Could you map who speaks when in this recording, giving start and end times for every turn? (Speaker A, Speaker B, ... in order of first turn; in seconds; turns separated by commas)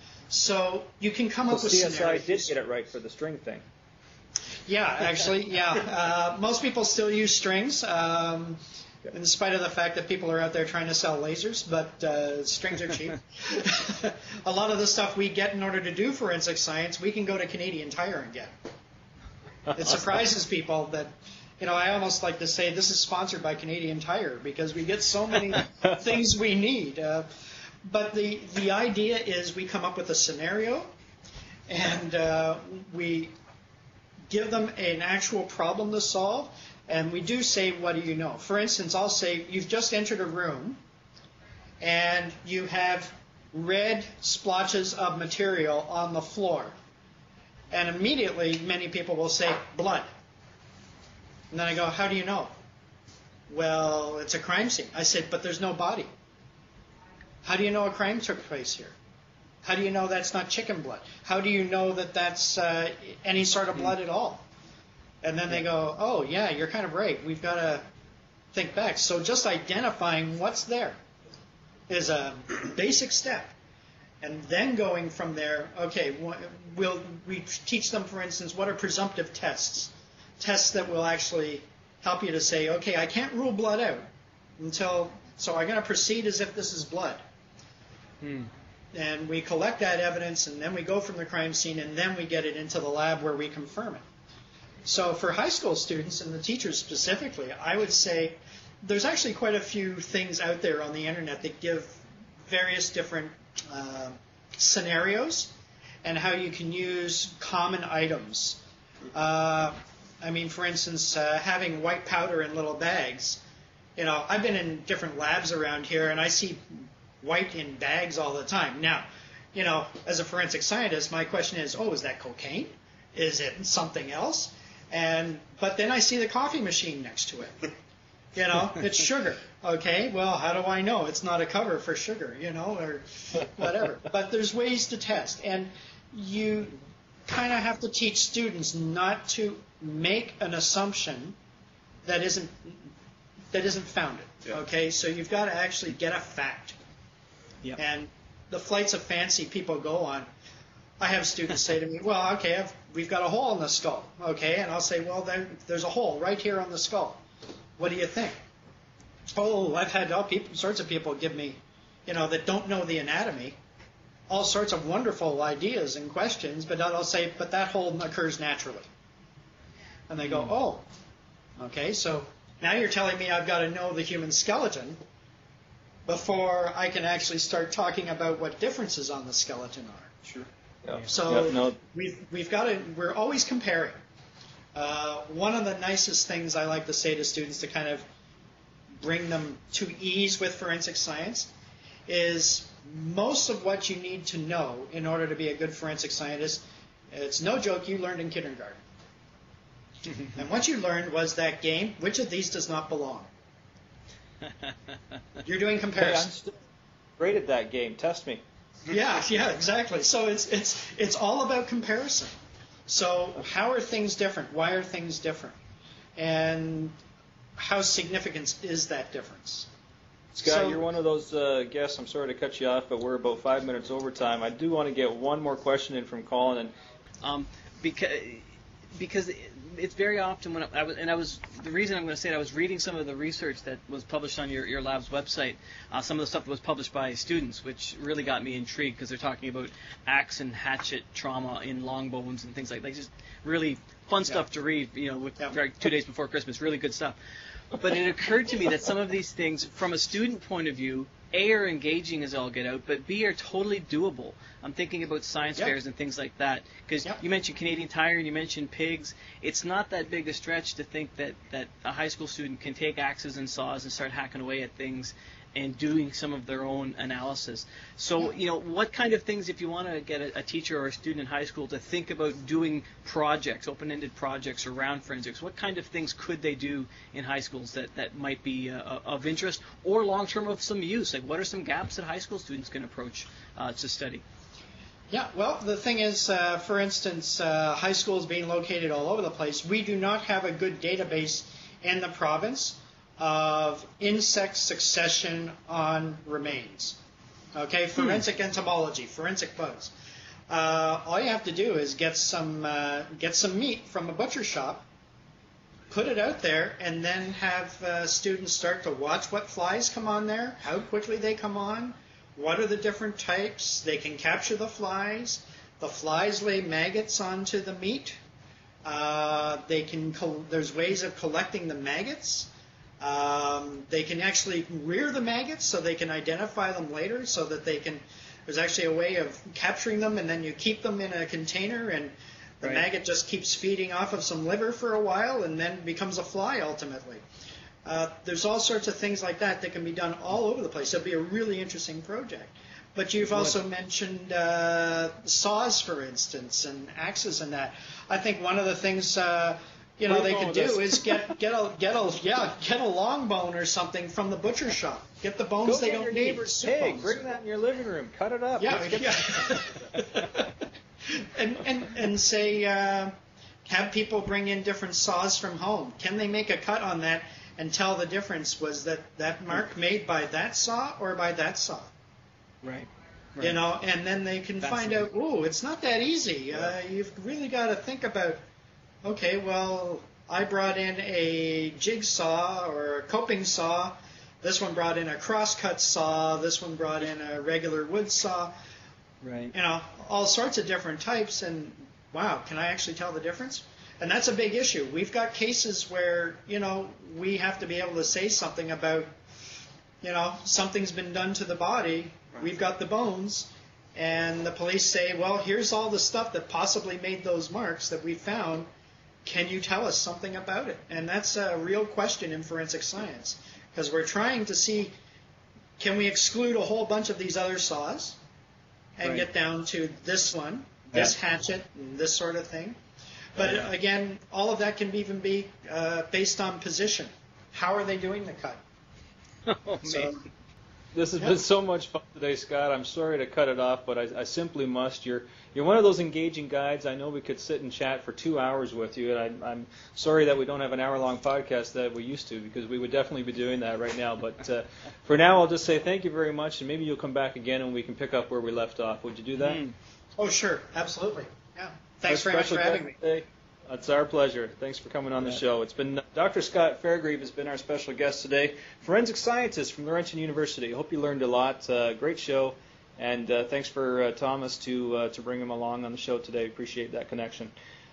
Speaker A: 0.3-2.5, Speaker B: 1.5-3.6, Speaker A: 4.7-18.5, Speaker A: 19.7-27.3, Speaker A: 27.8-30.9, Speaker A: 31.7-33.3, Speaker A: 34.3-40.8, Speaker A: 41.8-46.8, Speaker A: 47.7-50.1, Speaker A: 51.5-52.5, Speaker A: 53.5-56.1, Speaker A: 57.4-59.0, Speaker A: 59.6-64.5, Speaker A: 65.2-67.8, Speaker A: 68.5-71.0, Speaker A: 71.9-73.5, Speaker A: 74.2-84.1, Speaker A: 84.6-87.2, Speaker C: 88.2-88.5, Speaker A: 88.9-94.0, Speaker A: 94.8-105.5, Speaker A: 106.0-108.6, Speaker A: 109.1-113.4, Speaker A: 114.0-127.7, Speaker A: 128.3-141.4, Speaker A: 142.1-142.9, Speaker A: 143.5-146.8, Speaker A: 147.8-150.3, Speaker A: 151.0-157.2, Speaker A: 157.8-158.4, Speaker A: 159.3-163.6, Speaker A: 164.3-168.9, Speaker A: 170.1-170.8, Speaker A: 171.6-175.0, Speaker A: 176.1-180.3, Speaker B: 180.8-181.8, Speaker A: 181.1-183.9, Speaker A: 184.8-188.1, Speaker A: 189.0-191.5, Speaker A: 192.1-198.8, Speaker A: 200.3-203.3, Speaker A: 205.4-206.3, Speaker B: 206.0-206.6, Speaker B: 207.2-208.4, Speaker A: 208.9-212.3, Speaker A: 212.9-215.6, Speaker A: 216.2-216.9, Speaker A: 217.6-219.7, Speaker B: 220.3-226.7, Speaker A: 220.4-220.8, Speaker C: 227.2-247.2, Speaker C: 247.7-284.2, Speaker A: 285.1-297.0, Speaker A: 297.6-299.9, Speaker A: 300.5-304.9, Speaker A: 305.9-318.2, Speaker A: 318.9-322.5, Speaker A: 323.0-337.2, Speaker A: 337.9-357.3, Speaker B: 350.1-351.2, Speaker B: 355.6-360.0, Speaker A: 358.6-360.5, Speaker A: 361.1-363.1, Speaker A: 363.7-371.9, Speaker C: 372.6-373.6, Speaker A: 373.4-378.4, Speaker C: 374.6-375.1, Speaker A: 379.0-388.5, Speaker C: 389.2-389.5, Speaker A: 389.5-399.1, Speaker A: 400.0-408.7, Speaker A: 409.2-414.9, Speaker A: 415.8-418.2, Speaker A: 419.0-422.8, Speaker A: 423.4-428.6, Speaker C: 429.5-430.2, Speaker A: 429.8-430.2, Speaker B: 430.9-449.6, Speaker C: 449.4-449.7, Speaker A: 450.2-453.0, Speaker B: 452.1-467.5